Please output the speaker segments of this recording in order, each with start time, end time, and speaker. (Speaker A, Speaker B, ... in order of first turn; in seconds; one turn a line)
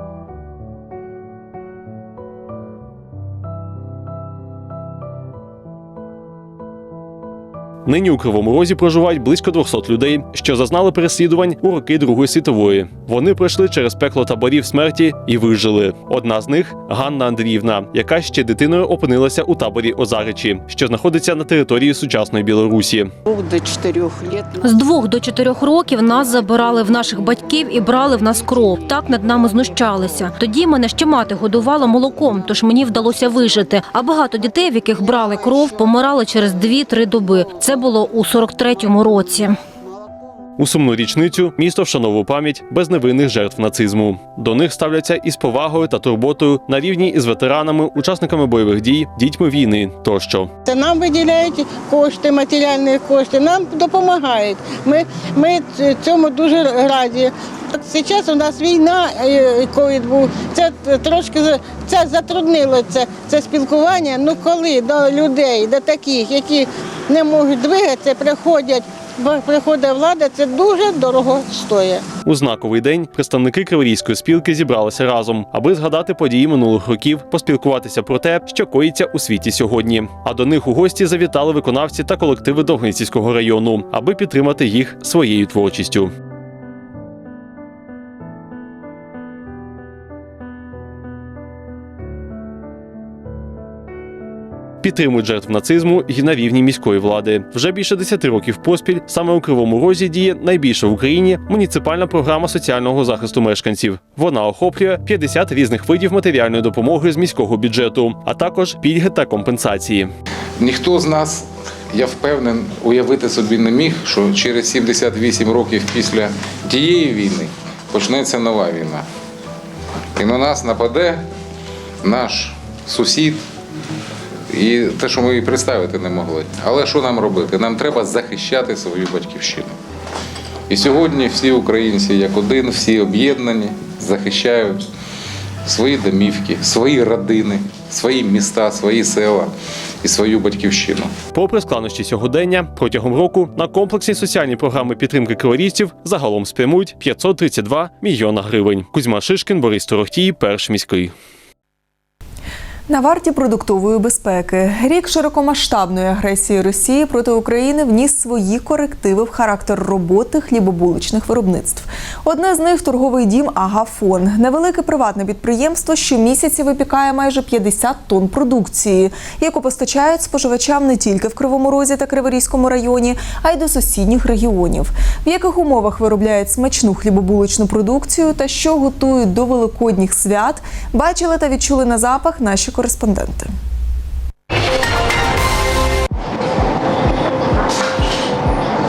Speaker A: 7.9-23.1
Speaker B: 23.3-24.3
Speaker C: 24.6-39.6
Speaker A: 40.6-50.5
Speaker B: 50.6-72.0
Speaker A: 72.2-86.1
Speaker A: 94.8-110.1
Speaker D: 110.6-119.0
Speaker D: 120.2-121.3
Speaker D: 122.0-123.4
Speaker D: 124.5-129.8
Speaker D: 130.7-134.9
Speaker D: 135.7-141.1
Speaker A: 141.3-151.1
Speaker E: 152.9-183.5